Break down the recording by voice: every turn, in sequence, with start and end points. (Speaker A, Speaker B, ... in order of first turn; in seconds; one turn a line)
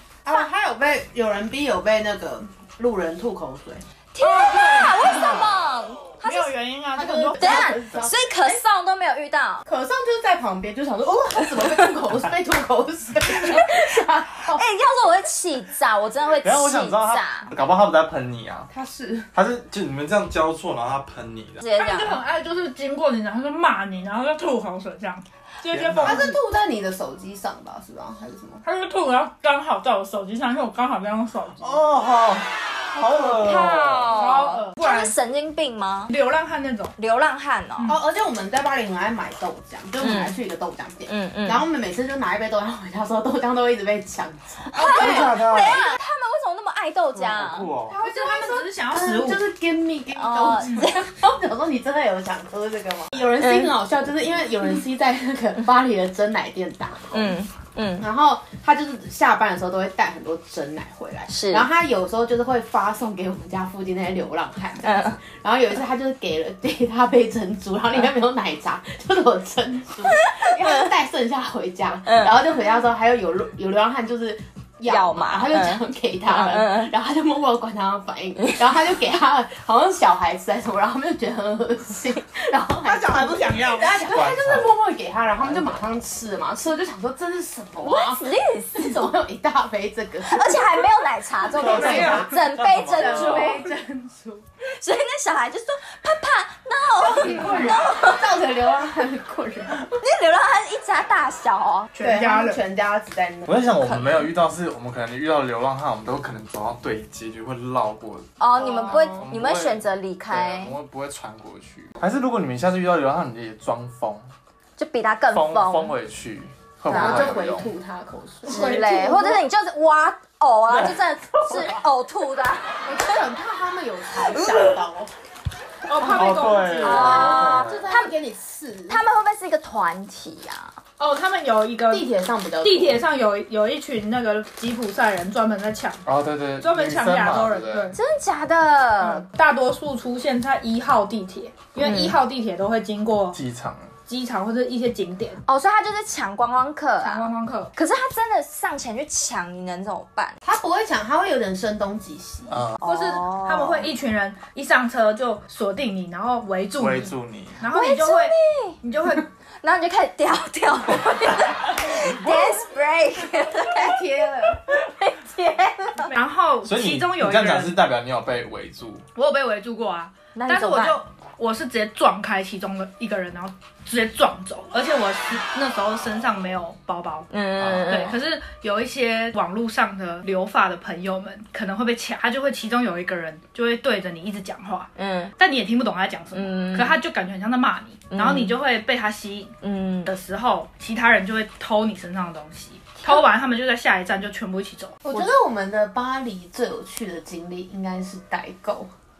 Speaker A: 0.2-3.8
Speaker B: 4.1-6.5
Speaker C: 4.2-5.3
Speaker D: 5.1-5.5
Speaker C: 6.2-7.8
Speaker A: 6.9-8.6
Speaker B: 7.4-9.7
Speaker A: 9.7-14.6
Speaker B: 14.5-17.5
Speaker D: 16.4-18.7
Speaker A: 18.7-19.3
Speaker D: 19.3-21.6
Speaker B: 21.6-22.2
Speaker C: 21.8-26.4
Speaker D: 25.7-26.3
Speaker A: 26.0-28.6
Speaker C: 28.6-31.8
Speaker D: 31.6-34.1
Speaker B: 33.2-36.1
Speaker C: 34.1-35.1
Speaker C: 36.1-36.9
Speaker B: 37.0-37.9
Speaker C: 37.8-38.0
Speaker A: 37.9-45.8
Speaker B: 40.0-40.3
Speaker B: 41.1-41.6
Speaker B: 44.7-47.7
Speaker C: 44.8-45.3
Speaker D: 44.9-45.8
Speaker D: 47.1-48.0
Speaker A: 47.9-57.4
Speaker C: 48.0-49.4
Speaker B: 50.1-51.0
Speaker B: 53.4-53.7
Speaker B: 57.1-58.1
Speaker A: 58.0-92.4
Speaker B: 61.3-61.7
Speaker B: 64.8-65.2
Speaker B: 70.2-70.8
Speaker B: 72.0-72.3
Speaker B: 74.8-76.9
Speaker C: 82.8-84.0
Speaker D: 83.8-84.7
Speaker D: 85.4-85.8
Speaker B: 87.8-89.0
Speaker B: 90.2-93.6
Speaker D: 91.5-93.6
Speaker C: 91.7-92.3
Speaker A: 92.9-94.4
Speaker B: 94.8-98.2
Speaker A: 97.0-99.9
Speaker B: 100.0-101.9
Speaker C: 101.9-102.6
Speaker A: 102.0-103.6
Speaker D: 103.5-108.3
Speaker B: 103.8-104.3
Speaker B: 108.4-110.7
Speaker A: 108.6-109.3
Speaker D: 109.0-114.3
Speaker B: 114.8-115.9
Speaker D: 115.3-117.7
Speaker A: 116.9-119.4
Speaker B: 116.9-117.4
Speaker B: 118.5-123.2
Speaker C: 118.5-119.3
Speaker D: 120.7-121.8
Speaker A: 122.8-125.1
Speaker B: 124.3-124.6
Speaker C: 125.9-127.4
Speaker D: 126.0-127.8
Speaker A: 126.8-129.0
Speaker B: 126.8-128.1
Speaker B: 128.9-130.8
Speaker C: 131.0-132.1
Speaker A: 131.9-133.0
Speaker C: 132.6-136.0
Speaker D: 136.0-137.9
Speaker C: 136.6-137.9
Speaker B: 137.9-139.2
Speaker C: 139.0-143.4
Speaker B: 141.8-142.2
Speaker D: 143.3-143.9
Speaker C: 144.1-145.4
Speaker B: 145.4-150.4
Speaker C: 147.0-147.7
Speaker A: 150.4-152.7
Speaker D: 152.5-152.8
Speaker B: 152.8-153.8
Speaker C: 152.8-159.3
Speaker D: 156.8-157.6
Speaker B: 157.7-158.8
Speaker B: 159.6-166.1
Speaker D: 161.9-162.6
Speaker A: 163.7-164.6
Speaker C: 166.1-167.8
Speaker D: 166.6-169.0
Speaker C: 169.2-177.3
Speaker B: 170.3-171.0
Speaker B: 177.3-178.2
Speaker D: 177.6-178.0
Speaker C: 177.9-195.3
Speaker B: 185.0-185.3
Speaker B: 186.3-186.9
Speaker B: 188.1-188.5
Speaker B: 189.6-190.1
Speaker A: 195.0-198.9